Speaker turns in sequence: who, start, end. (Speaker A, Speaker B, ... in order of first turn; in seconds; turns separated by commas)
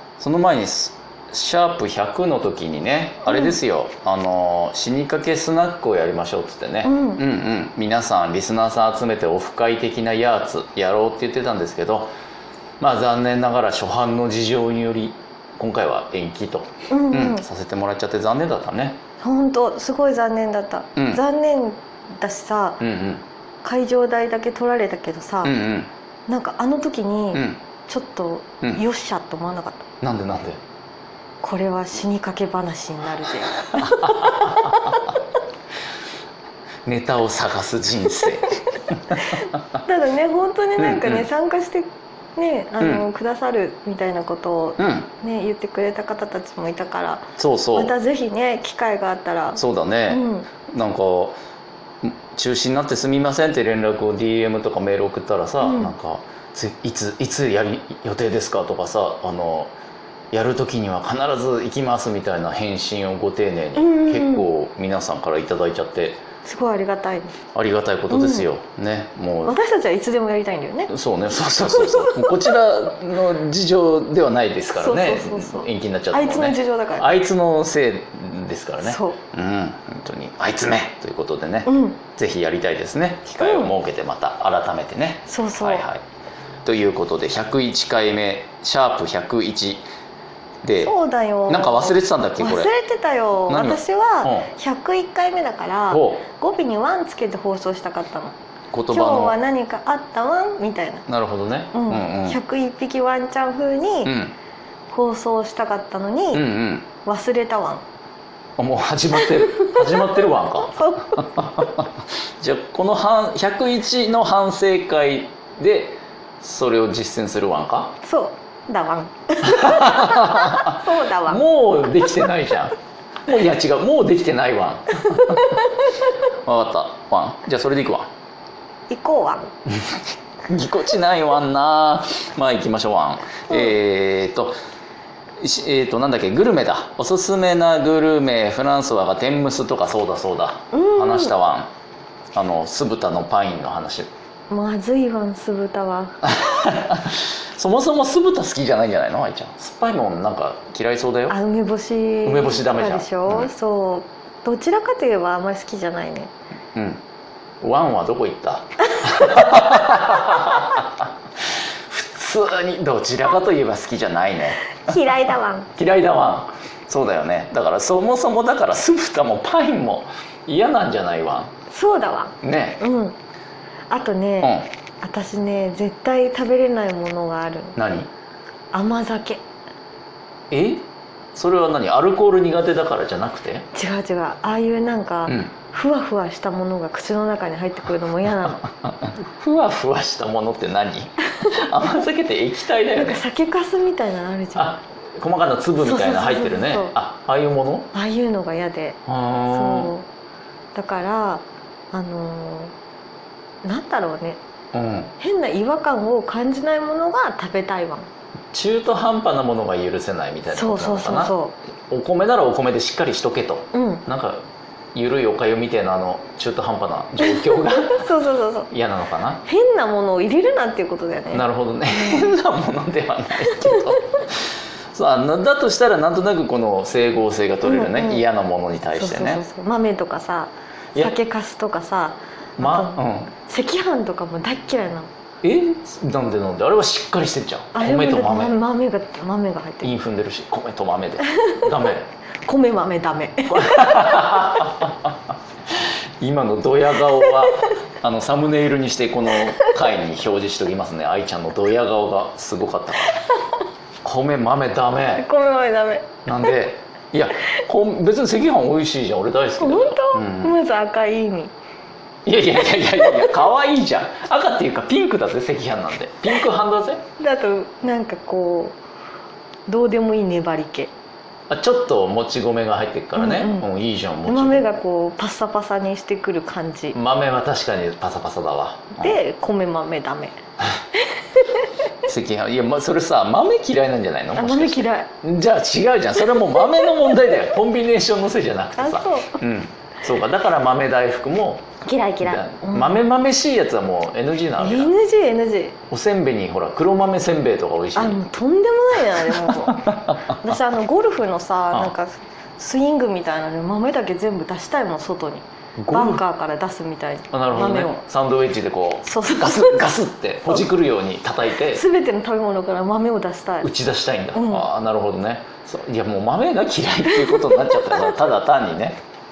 Speaker A: 0.2-12.1, Speaker B: 3.3-3.5, Speaker B: 6.8-7.2, Speaker A: 12.8-19.0, Speaker B: 16.9-17.4, Speaker B: 19.2-22.8, Speaker A: 21.0-21.2, Speaker A: 22.8-23.2, Speaker B: 23.6-25.5, Speaker A: 25.4-25.9, Speaker B: 26.3-29.9, Speaker A: 27.3-27.6, Speaker A: 30.0-30.6, Speaker B: 31.4-35.0, Speaker A: 33.8-35.0, Speaker A: 36.9-39.5, Speaker B: 39.4-50.5, Speaker A: 40.8-41.3, Speaker A: 44.8-45.1, Speaker A: 47.4-47.9, Speaker A: 49.6-51.4, Speaker A: 52.0-59.7, Speaker B: 55.6-55.9, Speaker A: 60.3-66.2, Speaker B: 63.8-64.5, Speaker B: 66.5-67.4, Speaker A: 67.5-69.6, Speaker B: 68.1-68.5, Speaker B: 69.5-70.9, Speaker A: 70.9-86.0, Speaker B: 71.6-72.5, Speaker B: 74.8-77.1, Speaker B: 78.8-79.2, Speaker B: 81.7-82.0, Speaker B: 83.4-83.7, Speaker B: 85.3-85.8, Speaker A: 86.7-89.9, Speaker A: 90.6-90.9, Speaker B: 90.8-98.4, Speaker A: 91.5-92.7, Speaker A: 93.5-94.5, Speaker A: 95.9-96.3, Speaker A: 98.7-99.4, Speaker B: 98.9-101.1, Speaker A: 101.1-102.4, Speaker B: 101.7-104.1, Speaker A: 104.0-104.3, Speaker B: 104.9-106.5, Speaker A: 106.3-106.9, Speaker B: 107.0-107.8, Speaker A: 108.6-118.0, Speaker B: 109.4-111.3, Speaker B: 118.0-121.4, Speaker A: 119.4-122.8, Speaker A: 123.3-125.7, Speaker A: 126.5-128.1, Speaker B: 128.9-129.5, Speaker A: 129.8-134.6, Speaker A: 135.4-141.7, Speaker B: 140.7-141.3, Speaker A: 142.3-144.1, Speaker B: 144.5-146.2, Speaker A: 146.2-151.4, Speaker B: 151.3-156.3, Speaker A: 152.2-153.5, Speaker A: 156.8-157.0, Speaker A: 157.6-161.1, Speaker A: 161.9-164.9, Speaker B: 164.8-165.7, Speaker A: 165.8-171.5, Speaker B: 171.7-173.2, Speaker A: 172.4-172.8, Speaker B: 173.9-177.8, Speaker A: 174.4-174.7, Speaker A: 177.8-178.1, Speaker B: 178.7-179.4, Speaker A: 180.5-183.7, Speaker B: 183.7-188.6, Speaker A: 185.3-185.5, Speaker A: 188.8-193.2, Speaker B: 191.4-192.0, Speaker B: 192.9-194.8, Speaker A: 194.6-197.9, Speaker B: 195.8-196.9, Speaker B: 197.9-200.1, Speaker A: 199.1-199.9, Speaker B: 200.8-202.7, Speaker B: 203.6-204.4, Speaker A: 204.7-205.1, Speaker B: 205.2-208.1, Speaker A: 208.5-211.3, Speaker B: 210.5-211.6, Speaker A: 211.9-214.4, Speaker B: 213.7-214.1, Speaker A: 214.9-218.1, Speaker B: 217.2-218.7, Speaker A: 218.7-219.4, Speaker B: 219.4-222.3, Speaker A: 221.3-229.4, Speaker B: 223.5-223.8, Speaker B: 227.6-228.2, Speaker B: 228.9-235.1, Speaker A: 232.6-233.3, Speaker A: 235.4-238.6, Speaker B: 237.7-239.9, Speaker A: 239.8-242.1, Speaker B: 241.3-241.6, Speaker B: 242.4-244.4, Speaker A: 243.5-245.1, Speaker A: 246.2-253.2, Speaker A: 254.0-255.2, Speaker B: 255.2-256.5, Speaker A: 256.3-260.6, Speaker B: 259.6-261.5, Speaker A: 262.3-267.0, Speaker B: 262.9-263.4, Speaker B: 267.2-268.8, Speaker B: 269.7-270.9, Speaker A: 271.5-274.8, Speaker B: 273.1-273.7, Speaker B: 274.3-277.0, Speaker A: 276.9-279.2, Speaker B: 279.0-280.4, Speaker B: 281.1-281.7, Speaker A: 282.0-294.9, Speaker B: 284.3-285.1, Speaker B: 288.8-289.4, Speaker B: 291.8-293.0, Speaker B: 294.6-295.8, Speaker A: 295.9-298.2, Speaker B: 297.9-308.0, Speaker A: 299.4-300.3, Speaker A: 305.8-306.2, Speaker A: 307.3-311.8, Speaker B: 309.1-310.0, Speaker B: 311.7-313.7, Speaker A: 313.6-319.0, Speaker B: 314.3-314.7, Speaker B: 317.2-318.1